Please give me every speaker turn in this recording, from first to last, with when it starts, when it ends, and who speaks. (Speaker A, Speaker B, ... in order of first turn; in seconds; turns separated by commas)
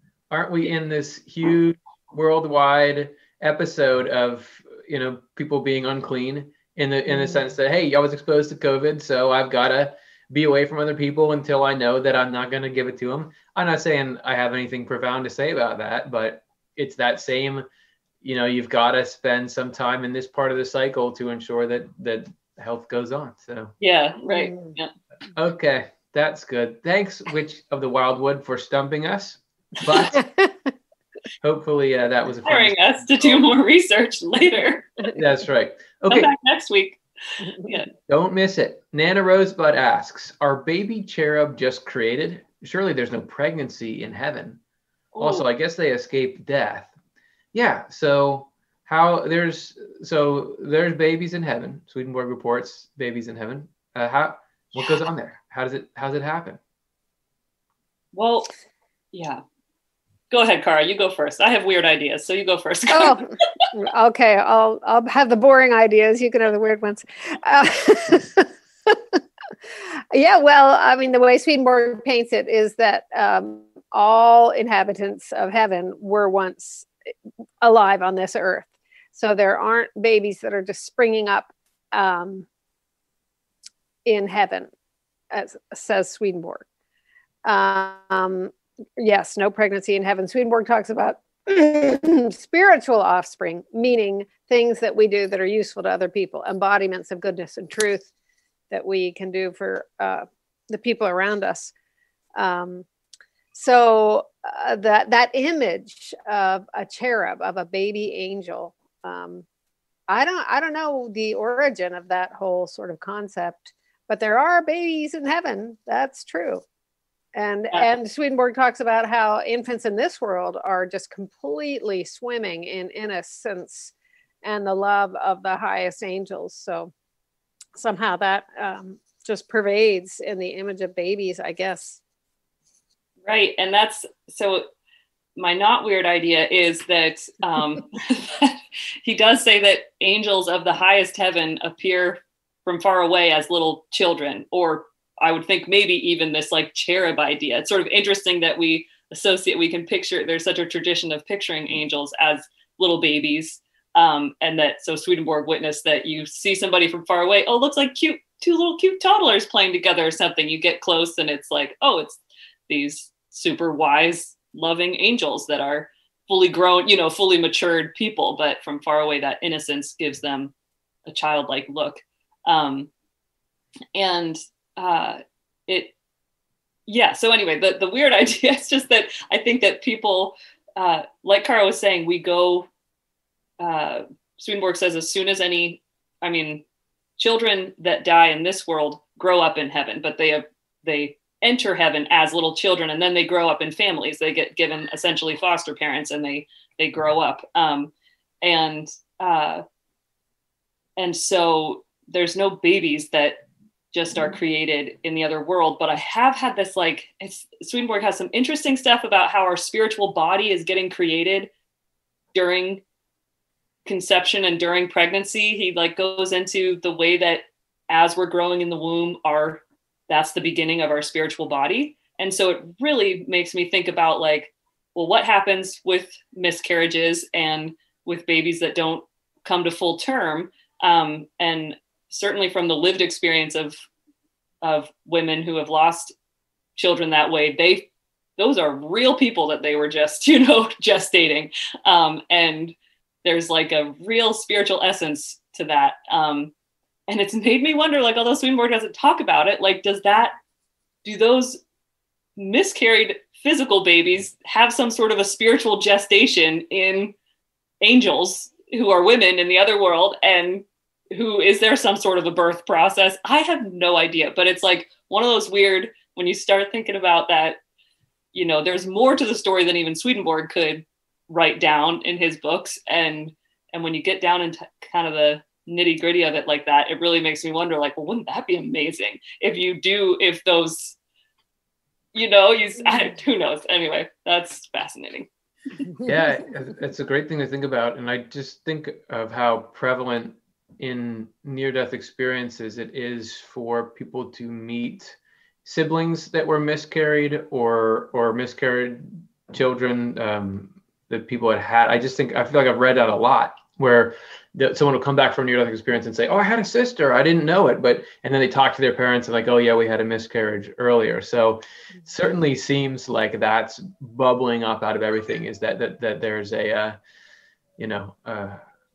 Speaker A: 0.3-17.6, Speaker A: 18.2-23.7, Speaker B: 23.8-24.9, Speaker C: 24.3-24.7, Speaker A: 25.4-30.2, Speaker A: 31.4-33.5, Speaker B: 32.4-35.0, Speaker A: 35.1-36.3, Speaker B: 36.1-37.9, Speaker A: 38.1-44.6, Speaker B: 45.1-45.5, Speaker A: 45.2-46.9, Speaker A: 47.5-56.6, Speaker B: 58.1-58.5, Speaker B: 59.1-59.4, Speaker B: 60.3-63.2, Speaker C: 62.9-69.2, Speaker C: 70.1-76.9, Speaker C: 77.6-82.5, Speaker C: 84.0-84.7, Speaker C: 85.3-86.6, Speaker C: 87.4-98.1, Speaker C: 98.7-101.7, Speaker C: 102.4-102.9, Speaker C: 103.5-109.4, Speaker C: 110.1-116.6, Speaker C: 117.3-126.9, Speaker C: 127.8-132.0, Speaker B: 133.2-134.6, Speaker B: 135.4-170.5, Speaker B: 171.1-172.9, Speaker B: 173.9-175.9, Speaker B: 176.9-182.7, Speaker B: 183.6-186.6, Speaker B: 187.2-199.6, Speaker B: 201.0-211.5, Speaker B: 212.3-212.8, Speaker B: 213.9-233.8, Speaker B: 234.6-236.1, Speaker B: 236.8-246.5, Speaker B: 247.1-250.3, Speaker B: 251.0-251.6, Speaker B: 252.4-257.1, Speaker B: 257.8-267.6, Speaker B: 268.3-281.0, Speaker B: 282.1-285.3, Speaker A: 286.1-317.0, Speaker A: 317.8-318.6